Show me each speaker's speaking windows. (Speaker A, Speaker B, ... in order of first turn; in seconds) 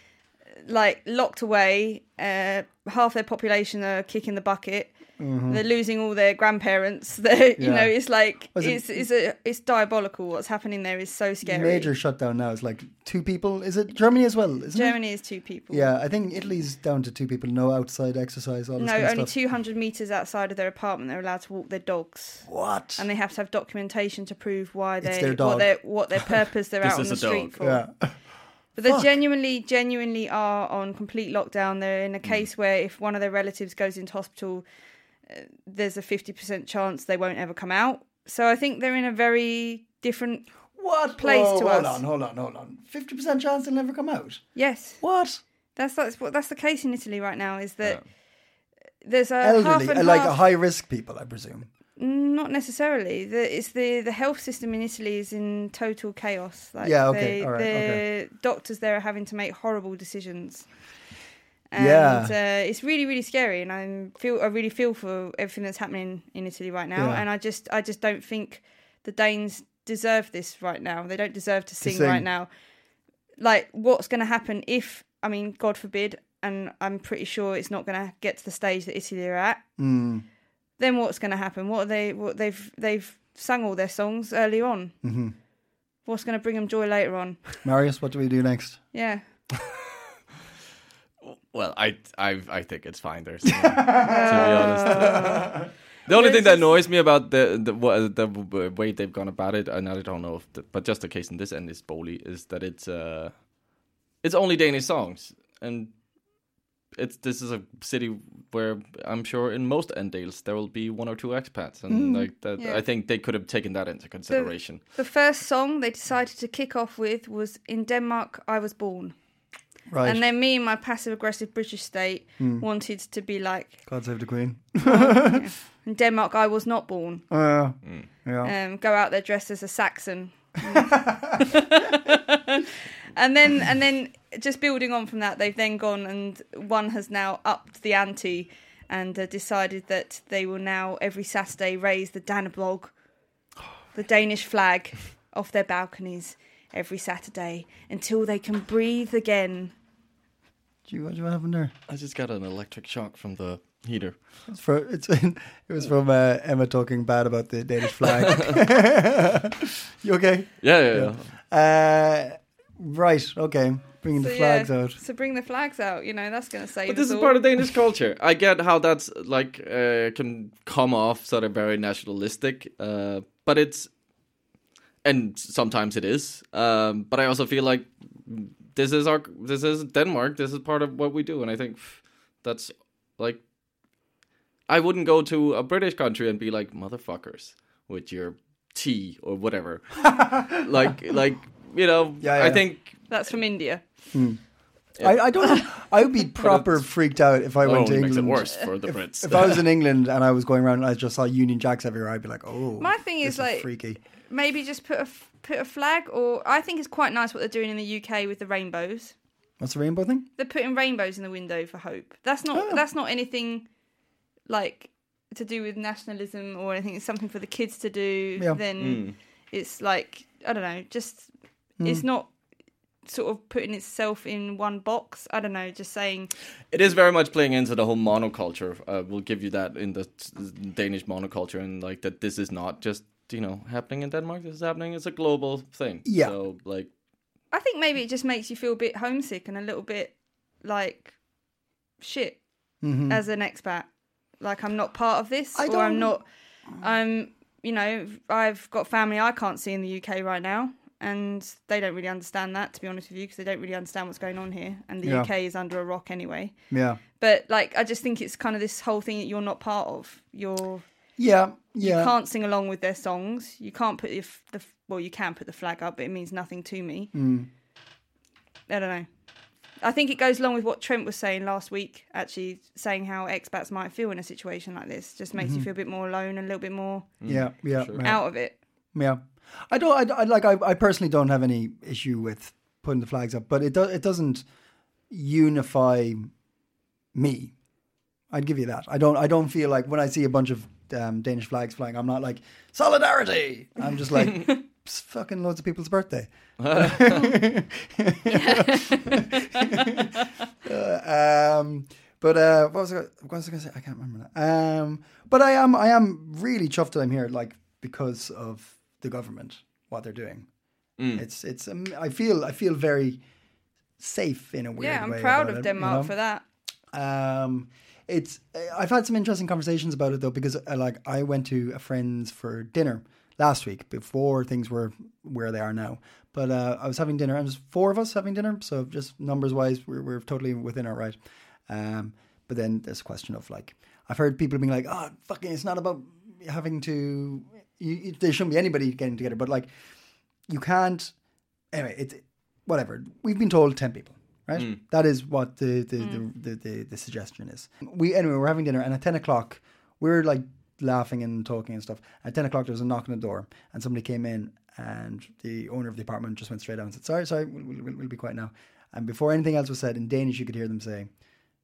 Speaker A: 0.6-5.0, 5.5-11.9, 14.7-15.9, 18.8-27.8, 28.8-34.6, 35.3-40.5, 41.2-42.0, 44.6-45.0, 45.8-48.0, 49.0-50.4, 52.0-60.7, 61.7-72.5, 73.4-79.6, 80.8-85.0, 86.1-87.5, 88.9-89.2, 94.0-95.6, 96.1-96.8, 114.3-119.2, 120.0-123.8, 124.8-127.3, 128.4-142.9, 143.9-149.7, 164.2-167.4, 193.1-193.8, 202.8-203.7, 204.2-209.1, 210.4-213.7, 214.5-221.3, 221.8-222.3, 223.1-226.3, 237.5-241.2, 242.0-242.4, 243.1-243.9, 244.4-246.3, 246.8-256.5, 257.2-260.9, 261.8-267.1, 268.7-269.1, 269.8-277.1, 278.0-278.6, 298.3-299.2, 299.8-300.0, 314.8-316.4
Speaker B: 5.2-5.6, 7.6-7.9, 8.5-9.0, 11.4-15.0, 15.7-19.3, 22.5-23.1, 25.0-25.7, 27.6-28.1, 28.8-29.1, 40.8-44.4, 45.0-45.4, 49.4-51.7, 56.8-58.0, 61.8-62.4, 67.0-67.2, 71.8-72.3, 79.8-80.2, 85.0-85.3, 87.6-88.8, 93.5-95.6, 111.9-112.3, 119.9-120.2, 122.4-122.7, 123.9-125.5, 127.3-128.5, 130.7-131.5, 150.9-151.7, 154.5-165.0, 190.0-190.7, 192.2-192.6, 194.1-194.4, 195.0-204.0, 209.6-210.3, 212.5-212.8, 221.8-222.1, 236.1-236.3, 242.8-243.2, 245.6-246.2, 255.0-255.3, 256.7-257.0, 261.2-262.1, 267.1-267.5, 275.4-275.7, 277.2-278.2, 278.9-284.4, 285.1-286.3, 287.1-287.5, 288.3-310.5, 311.1-313.2, 314.0-316.1, 316.9-331.2, 331.7-339.7, 340.5-341.1, 341.7-361.1
Speaker C: 26.8-27.6, 91.2-95.5, 96.1-103.4, 104.2-105.9, 107.0-114.8, 151.9-154.2, 158.0-158.6, 160.6-161.3, 166.9-173.9, 175.0-183.4, 184.7-193.1, 195.0-195.7, 196.4-196.8, 197.6-199.6, 218.8-219.2, 226.7-236.9, 277.2-278.0, 296.6-297.3, 311.0-311.2